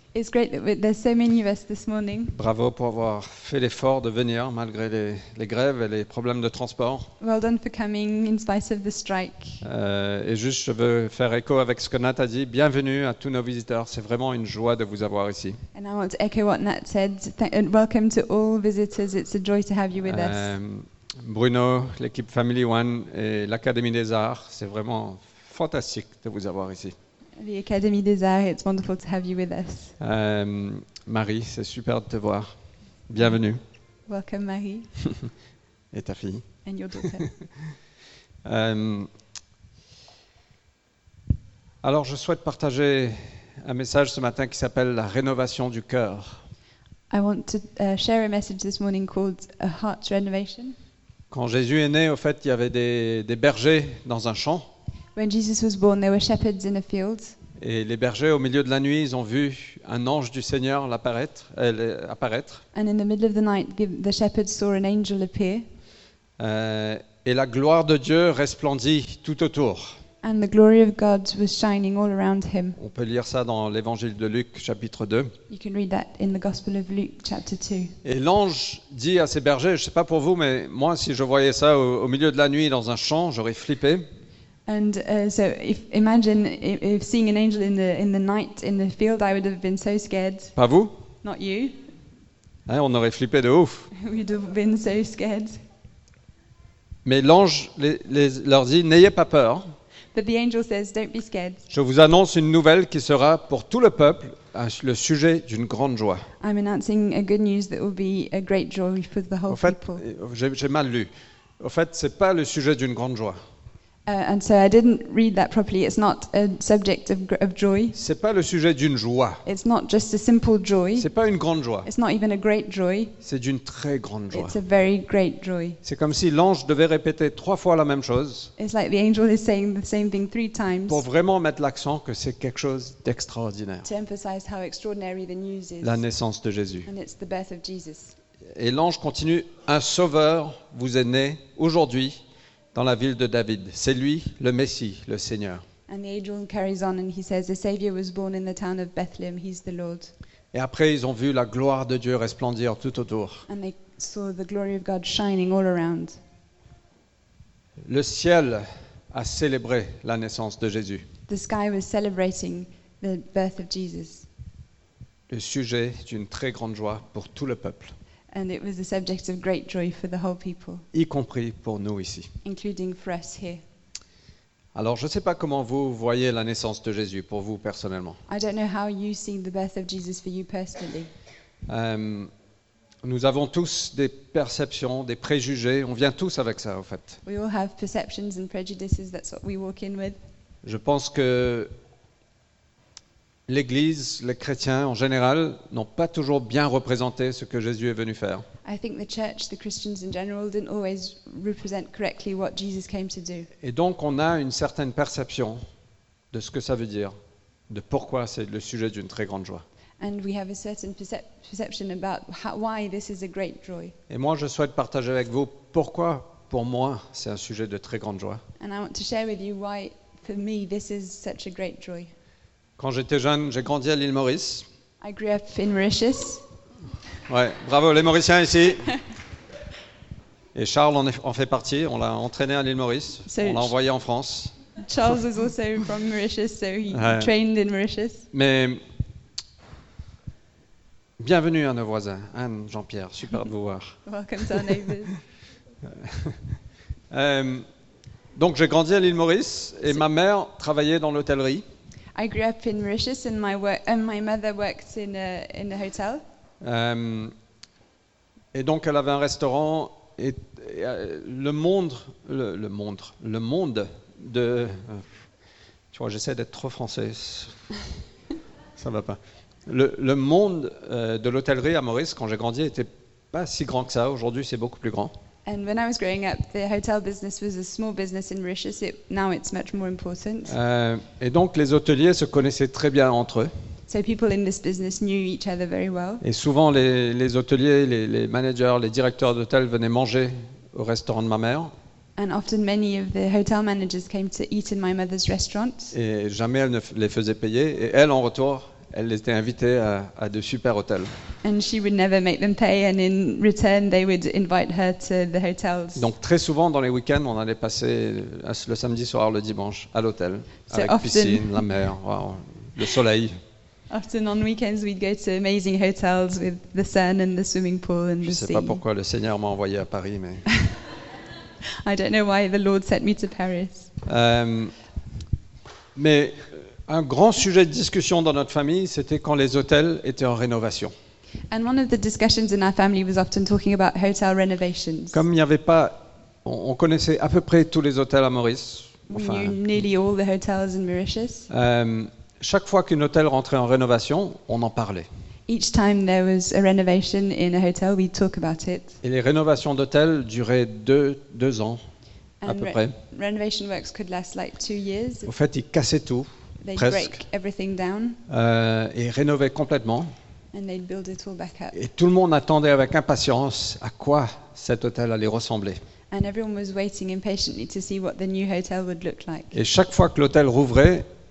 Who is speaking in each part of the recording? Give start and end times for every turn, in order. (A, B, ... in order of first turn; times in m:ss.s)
0:00.1-0:02.3 A
0:02.4-0:07.1 B
0:07.2-0:09.6 A
0:09.6-0:15.6 B
0:15.7-0:20.5 A
0:20.0-0:27.0 B
0:27.4-0:29.9 A
0:30.0-0:32.6 B
0:33.1-0:33.6 B
0:34.1-0:34.9 A
0:35.9-0:36.4 B
0:36.6-0:37.3 A
0:38.4-0:39.1 B
0:41.8-0:46.4 B
0:47.1-0:50.8 A
0:51.3-0:54.7 B
0:55.1-0:57.3 A
0:57.6-1:02.6 B
1:02.7-1:05.7 A
1:06.4-1:10.0 B
1:10.2-1:12.8 A
1:12.8-1:15.3 B
1:15.5-1:17.9 A
1:18.0-1:24.1 B
1:24.7-1:30.5 A
1:30.6-1:31.0 B
1:31.2-1:31.8 A
1:32.7-1:33.9 B
1:33.9-1:35.6 A
1:37.0-1:39.7 B
1:40.1-1:41.6 A
1:41.7-1:46.3 B
1:46.4-1:50.0 A
1:49.5-1:53.4 B
1:54.1-1:58.0 A
1:57.9-1:59.4 B
1:59.4-2:01.1 A
2:01.0-2:01.9 B
2:01.8-2:03.1 A
2:03.2-2:04.6 B
2:04.3-2:05.8 A
2:05.8-2:08.5 B
2:08.6-2:11.0 A
2:10.9-2:13.9 B
2:13.8-2:16.0 A
2:15.8-2:16.9 B
2:16.8-2:18.1 A
2:18.5-2:22.2 B
2:22.7-2:25.6 B
2:25.9-2:30.1 A
2:30.5-2:33.5 B
2:33.5-2:36.2 A
2:37.8-2:41.1 B
2:41.3-2:44.2 A
2:45.3-2:47.9 B
2:48.3-2:50.8 A
2:50.9-2:52.3 B
2:52.4-2:53.6 A
2:54.8-2:58.2 B
2:58.3-3:01.1 A
3:01.7-3:02.3 B
3:03.0-3:07.2 B
3:07.2-3:10.2 A
3:10.6-3:11.7 B
3:13.5-3:18.5 B
3:18.6-3:23.5 A
3:23.6-3:25.6 B
3:26.3-3:27.1 B
3:27.7-3:29.6 B
3:30.0-3:33.9 A
3:34.1-3:38.4 B
3:38.6-3:42.1 A
3:42.8-3:44.7 B
3:45.0-3:46.4 A
3:47.3-3:49.0 B
3:50.6-3:54.6 B
3:53.2-3:53.7 A
3:54.8-3:58.2 A
3:56.9-3:57.3 B
3:58.3-3:58.8 B
4:01.2-4:04.0 B
4:04.1-4:05.1 A
4:06.0-4:06.4 B
4:07.1-4:07.7 B
4:08.3-4:11.6 B
4:12.2-4:16.2 A
4:16.6-4:17.3 B
4:18.5-4:25.0 B
4:25.9-4:27.5 B
4:28.8-4:35.2 B
4:35.4-4:40.6 A
4:40.5-4:43.5 B
4:43.9-4:46.2 A
4:46.2-4:51.7 B
4:52.2-4:55.9 A
4:55.9-5:01.1 B
5:01.4-5:06.1 A
5:05.9-5:13.4 B
5:10.7-5:11.7 A
5:13.9-5:18.8 A
5:18.2-5:20.5 B
5:21.6-5:23.9 A
5:24.0-5:24.7 B
5:25.9-5:30.9 B
5:31.5-5:35.2 A
5:35.1-5:39.6 B
5:39.1-5:41.5 A
5:41.5-5:45.1 B
5:45.5-5:49.0 A
5:49.0-5:51.8 B
5:52.4-5:55.3 A
5:52.4-5:52.9 B
5:55.2-5:57.2 B
5:56.6-5:58.2 A
5:58.3-6:00.1 B
6:00.5-6:01.7 A
6:01.7-6:05.8 B
6:06.1-6:09.6 A
6:09.5-6:11.1 B